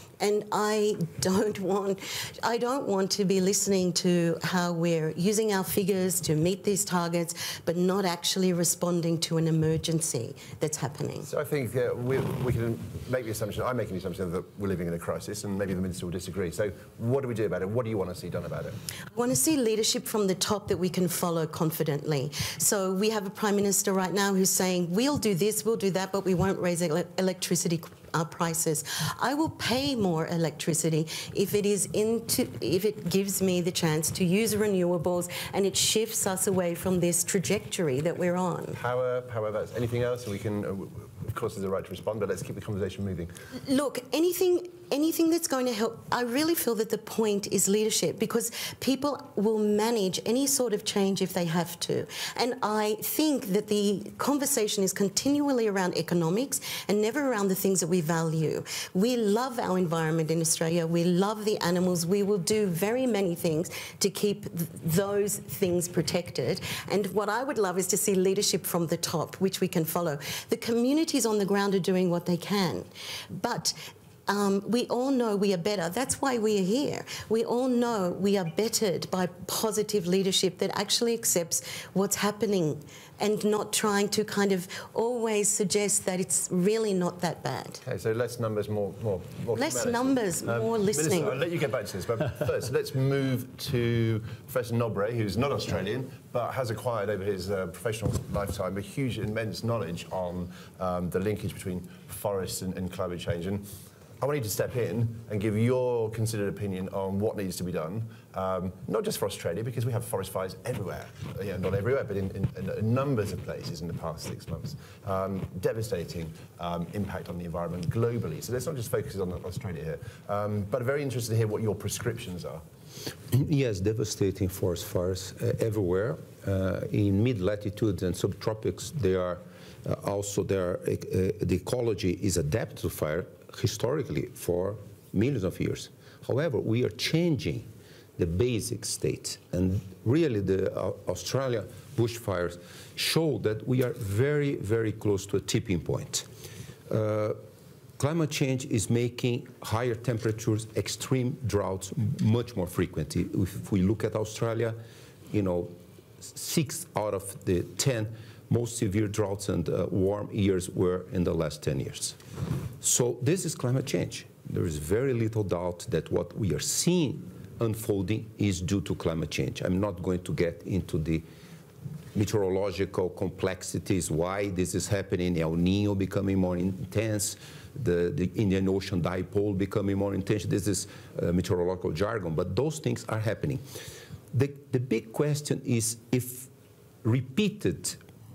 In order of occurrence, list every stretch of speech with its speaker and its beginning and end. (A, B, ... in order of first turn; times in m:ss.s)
0:00.2-0:11.3 A
0:11.2-0:18.8 B
0:19.1-0:38.8 A
0:38.8-0:43.3 B
0:43.6-1:27.8 A
1:27.8-1:43.7 B
1:29.6-1:31.4 A
1:44.2-2:02.6 B
2:03.3-2:26.3 C
2:26.9-2:27.4 C
2:28.0-2:34.8 C
2:35.3-2:42.2 C
2:42.8-2:51.3 C
2:52.1-3:03.7 C
3:04.3-3:06.5 C
3:07.0-3:08.0 C